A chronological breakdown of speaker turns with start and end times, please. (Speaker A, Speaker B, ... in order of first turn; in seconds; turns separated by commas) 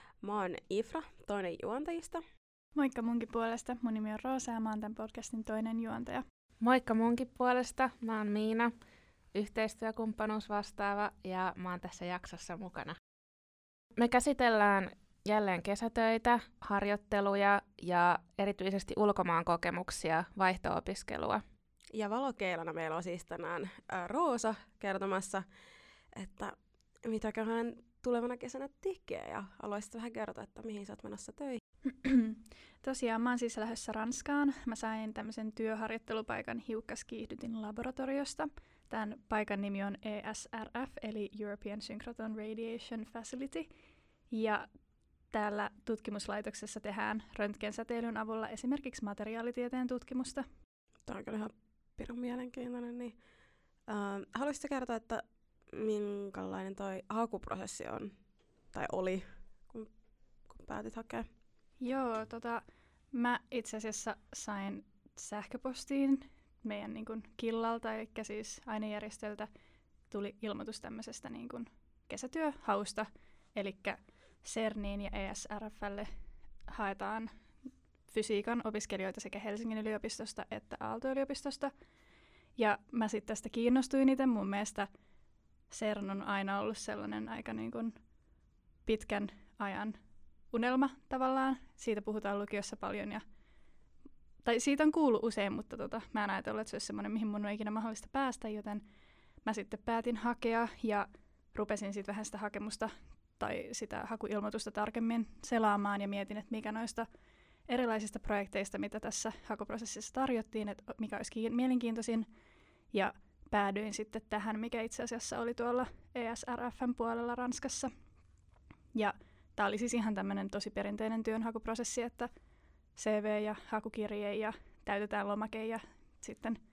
Speaker A: 0.2-2.2, Speaker B: 2.8-6.2, Speaker C: 6.6-8.7, Speaker C: 9.3-13.0, Speaker C: 14.0-21.4, Speaker A: 21.9-25.5, Speaker A: 26.1-31.6, Speaker B: 31.9-43.7, Speaker B: 44.3-44.7, Speaker B: 45.3-50.5, Speaker A: 51.1-53.2, Speaker A: 53.9-58.1, Speaker A: 58.7-59.9, Speaker A: 60.5-61.3, Speaker B: 61.8-69.5, Speaker B: 70.1-76.1, Speaker B: 76.7-77.3, Speaker B: 78.1-81.7, Speaker B: 82.6-84.9, Speaker B: 85.7-88.0, Speaker B: 88.9-90.0, Speaker B: 90.5-93.2, Speaker B: 94.4-98.8, Speaker B: 99.4-107.1, Speaker B: 107.7-112.3, Speaker B: 112.9-117.9, Speaker B: 119.0-122.3, Speaker B: 123.0-126.6